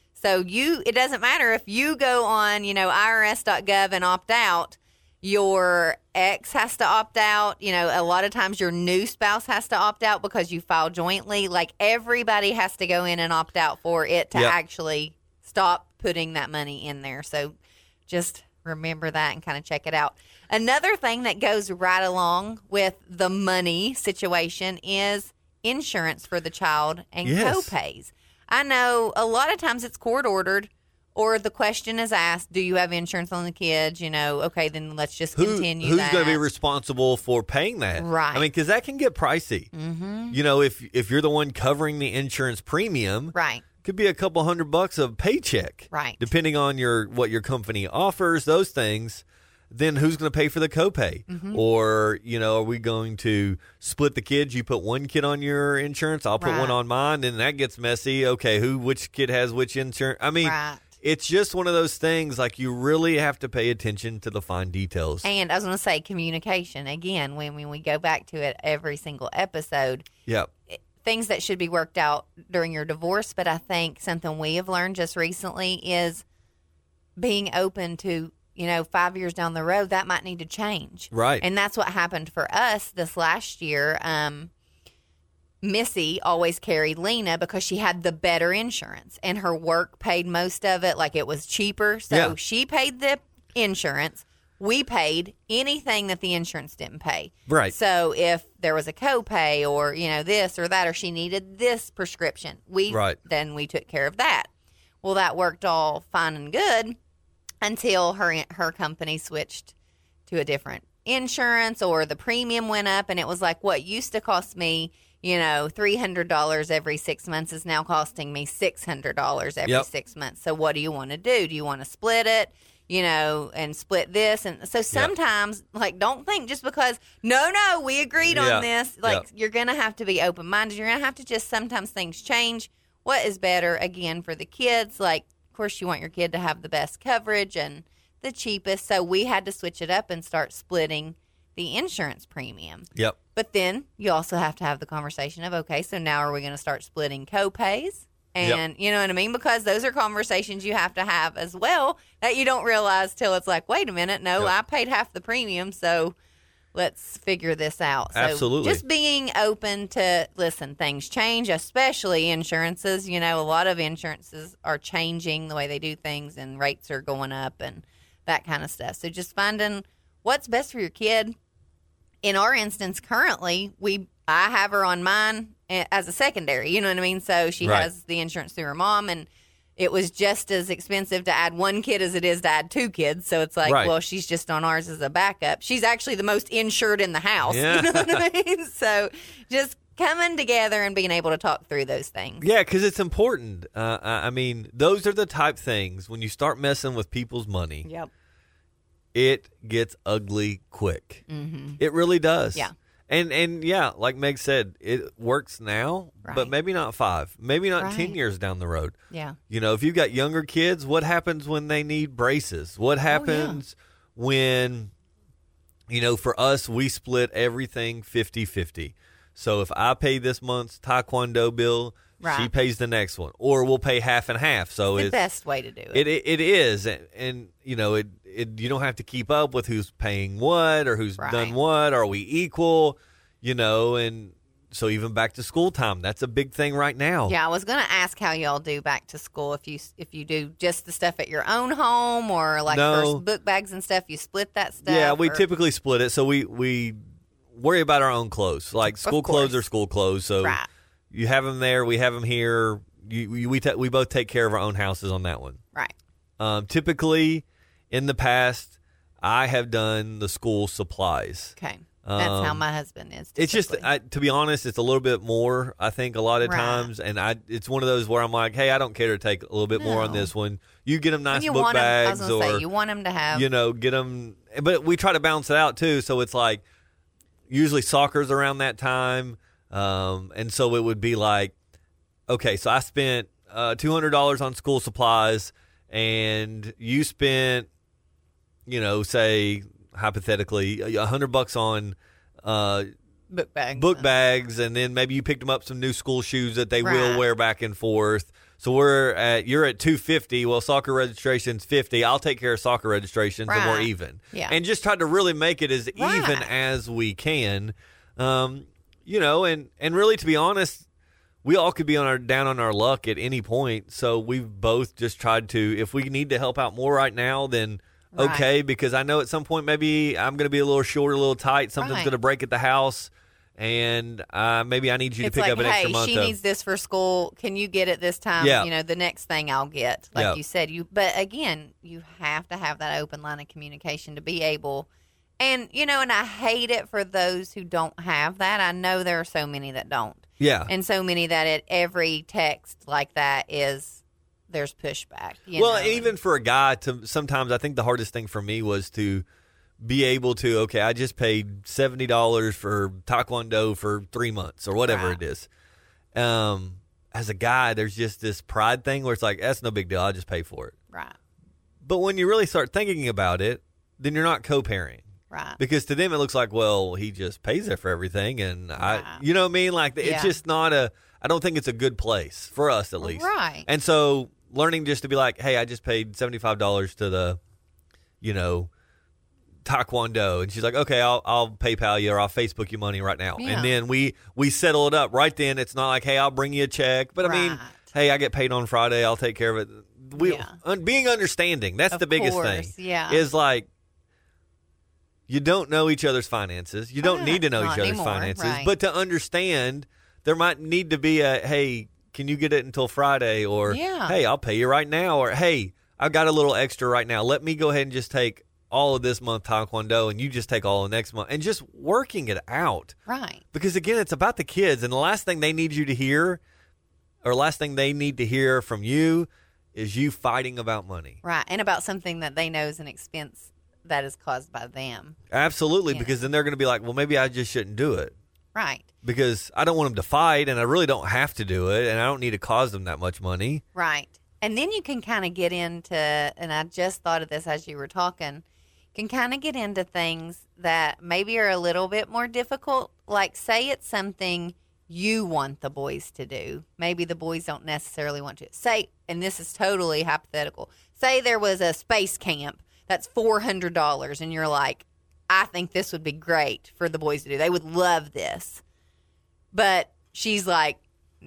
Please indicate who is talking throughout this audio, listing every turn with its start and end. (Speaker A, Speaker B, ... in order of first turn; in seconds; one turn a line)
Speaker A: 0.1-17.5
Speaker A: 18.1-36.4
Speaker B: 27.2-27.7
Speaker B: 35.3-39.7
Speaker A: 38.0-38.5
Speaker A: 39.7-40.4
Speaker B: 40.3-65.2
Speaker A: 43.3-43.6
Speaker A: 45.9-46.3
Speaker A: 51.3-51.6
Speaker A: 56.4-56.8
Speaker A: 60.4-60.9
Speaker A: 65.2-70.0
Speaker A: 70.7-76.2
Speaker A: 77.2-84.5
Speaker B: 81.1-81.4
Speaker A: 85.6-104.5
Speaker B: 92.1-92.3
Speaker B: 97.5-97.7
Speaker B: 102.9-103.2
Speaker A: 105.0-107.0
Speaker A: 107.6-109.7
Speaker A: 110.3-156.1
Speaker B: 128.2-129.2
Speaker A: 156.7-171.3
Speaker B: 158.1-158.8
Speaker A: 172.2-192.4
Speaker B: 177.6-177.9
Speaker B: 183.6-183.9
Speaker B: 187.5-188.2
Speaker B: 192.4-197.9
Speaker A: 197.8-198.1
Speaker B: 199.1-201.2
Speaker A: 201.3-201.8
Speaker B: 201.8-208.9
Speaker A: 206.2-206.5
Speaker A: 207.8-208.2
Speaker A: 209.1-209.4
Speaker B: 209.5-214.9
Speaker A: 213.1-213.6
Speaker B: 215.9-225.2
Speaker A: 222.2-222.5
Speaker A: 224.9-226.1
Speaker B: 225.9-237.3
Speaker A: 231.2-231.5
Speaker A: 237.3-245.4
Speaker B: 242.7-243.2
Speaker B: 244.8-247.0
Speaker B: 247.5-250.6
Speaker A: 249.0-249.6
Speaker A: 250.4-250.7
Speaker B: 251.1-255.6
Speaker B: 256.4-262.6
Speaker A: 261.6-263.9
Speaker B: 263.4-272.6
Speaker A: 266.4-266.9
Speaker A: 269.8-270.3
Speaker A: 271.3-273.5
Speaker B: 273.3-276.6
Speaker B: 277.5-281.5
Speaker B: 282.3-287.7
Speaker B: 288.7-292.9
Speaker A: 293.3-294.1
Speaker B: 293.7-310.8
Speaker A: 296.8-297.2
Speaker A: 303.5-304.6
Speaker A: 305.9-306.5
Speaker B: 311.4-326.3
Speaker A: 318.1-318.4
Speaker A: 321.8-322.1
Speaker A: 325.2-334.9
Speaker B: 328.4-328.7
Speaker A: 335.4-346.1
Speaker B: 340.4-340.7
Speaker B: 345.6-349.2
Speaker B: 349.8-355.5
Speaker A: 354.9-355.2
Speaker B: 356.1-360.7
Speaker B: 361.8-365.1
Speaker A: 365.3-365.6
Speaker B: 365.6-377.4
Speaker A: 368.8-369.2
Speaker A: 370.0-370.3
Speaker A: 373.0-373.7
Speaker B: 378.2-378.7
Speaker B: 379.6-393.7
Speaker A: 383.4-383.7
Speaker A: 387.2-387.9
Speaker A: 390.1-390.5
Speaker A: 391.9-393.2
Speaker B: 395.3-412.9
Speaker A: 397.0-398.7
Speaker A: 403.7-404.1
Speaker A: 413.1-413.4
Speaker B: 413.5-416.4
Speaker B: 417.2-421.2
Speaker A: 421.2-425.2
Speaker B: 425.3-428.1
Speaker A: 425.9-426.3
Speaker A: 428.5-428.9
Speaker B: 429.0-433.6
Speaker A: 433.7-438.4
Speaker A: 438.9-458.6
Speaker A: 459.5-460.8